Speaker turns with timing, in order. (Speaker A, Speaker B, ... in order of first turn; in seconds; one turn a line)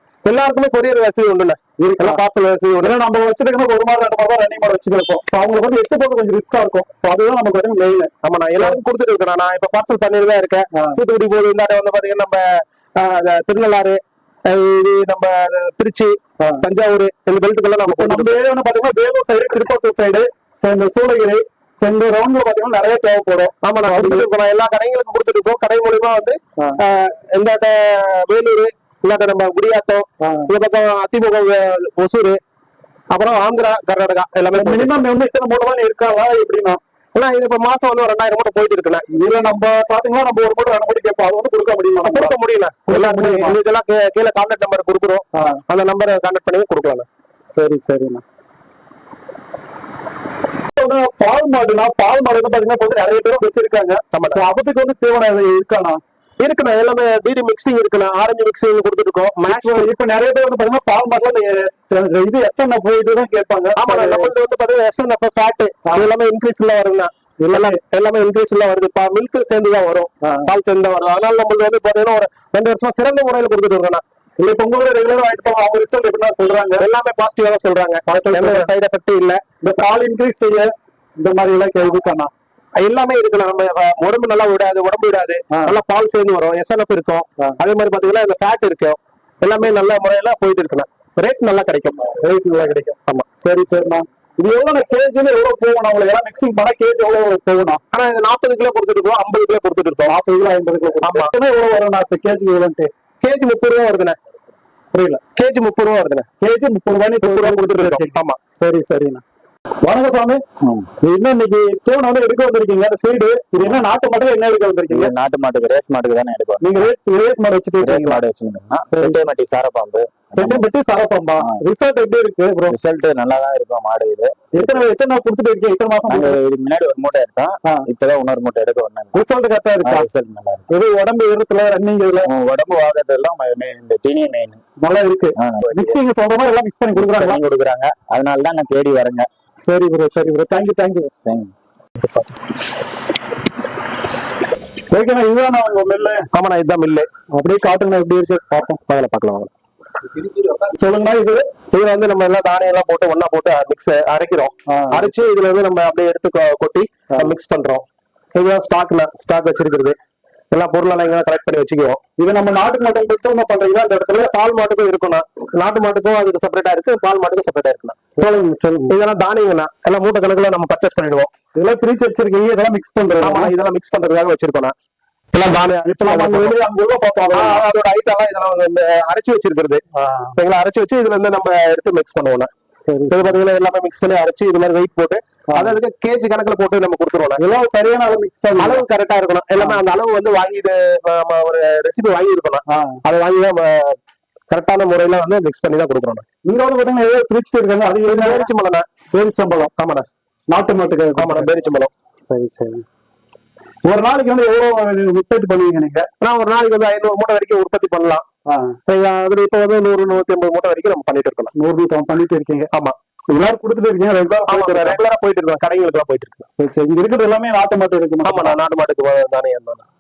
Speaker A: 0.2-3.0
Speaker B: 1.8-2.2
Speaker B: 2.8-8.8
Speaker A: 8.2-18.4
Speaker B: 10.7-11.0
Speaker B: 17.9-24.3
Speaker A: 23.6-32.4
Speaker B: 30.2-30.5
Speaker A: 33.1-35.0
Speaker B: 34.5-36.8
Speaker A: 37.1-39.0
Speaker B: 39.1-42.4
Speaker A: 42.0-47.1
Speaker B: 42.9-43.6
Speaker B: 45.3-45.6
Speaker B: 47.5-48.2
Speaker B: 50.8-56.0
Speaker A: 54.1-54.4
Speaker A: 56.4-59.9
Speaker B: 59.4-64.3
Speaker A: 63.8-74.0
Speaker B: 67.4-67.8
Speaker B: 70.2-70.5
Speaker B: 74.4-76.9
Speaker A: 76.8-79.4
Speaker B: 78.1-78.7
Speaker B: 79.6-82.3
Speaker A: 82.8-92.1
Speaker B: 85.5-85.8
Speaker B: 92.1-97.8
Speaker A: 97.9-100.1
Speaker B: 100.0-102.9
Speaker A: 101.0-101.3
Speaker A: 103.2-104.2
Speaker B: 104.9-105.2
Speaker A: 105.4-106.3
Speaker B: 106.4-109.2
Speaker A: 107.2-108.4
Speaker B: 109.8-110.4
Speaker C: 110.6-110.9
Speaker B: 111.0-115.1
Speaker C: 113.6-113.9
Speaker C: 114.9-116.9
Speaker B: 116.6-118.2
Speaker C: 117.8-120.7
Speaker B: 118.9-119.2
Speaker B: 120.3-122.8
Speaker C: 122.7-124.6
Speaker B: 124.5-126.4
Speaker C: 126.1-129.2
Speaker B: 129.1-130.1
Speaker C: 129.8-130.7
Speaker B: 130.7-132.3
Speaker C: 132.2-134.6
Speaker B: 134.8-137.4
Speaker C: 135.4-136.0
Speaker C: 136.9-139.3
Speaker B: 139.6-141.1
Speaker C: 141.2-141.5
Speaker B: 144.9-146.2
Speaker A: 146.3-147.1
Speaker B: 147.3-148.8
Speaker A: 148.9-149.5
Speaker B: 150.8-151.4
Speaker A: 151.7-159.9
Speaker B: 154.7-155.1
Speaker A: 160.5-162.0
Speaker B: 162.2-164.3
Speaker A: 164.1-168.0
Speaker B: 168.2-168.9
Speaker A: 168.9-171.3
Speaker B: 171.6-173.5
Speaker A: 173.2-174.7
Speaker A: 175.3-176.6
Speaker B: 175.8-177.7
Speaker A: 177.3-179.8
Speaker B: 179.9-180.3
Speaker A: 180.4-182.5
Speaker B: 182.8-183.4
Speaker A: 183.1-187.4
Speaker B: 185.5-185.8
Speaker B: 187.4-188.9
Speaker A: 188.6-194.0
Speaker B: 192.7-193.0
Speaker A: 194.5-196.2
Speaker B: 196.4-198.5
Speaker A: 198.1-198.9
Speaker B: 199.1-199.7
Speaker A: 199.8-200.0
Speaker B: 200.5-201.5
Speaker A: 201.2-201.9
Speaker B: 202.3-202.8
Speaker B: 203.9-206.1
Speaker A: 206.2-208.2
Speaker B: 208.4-208.8
Speaker A: 208.9-211.5
Speaker B: 211.6-212.7
Speaker B: 213.3-215.0
Speaker A: 214.2-216.4
Speaker B: 216.6-218.6
Speaker A: 218.2-219.8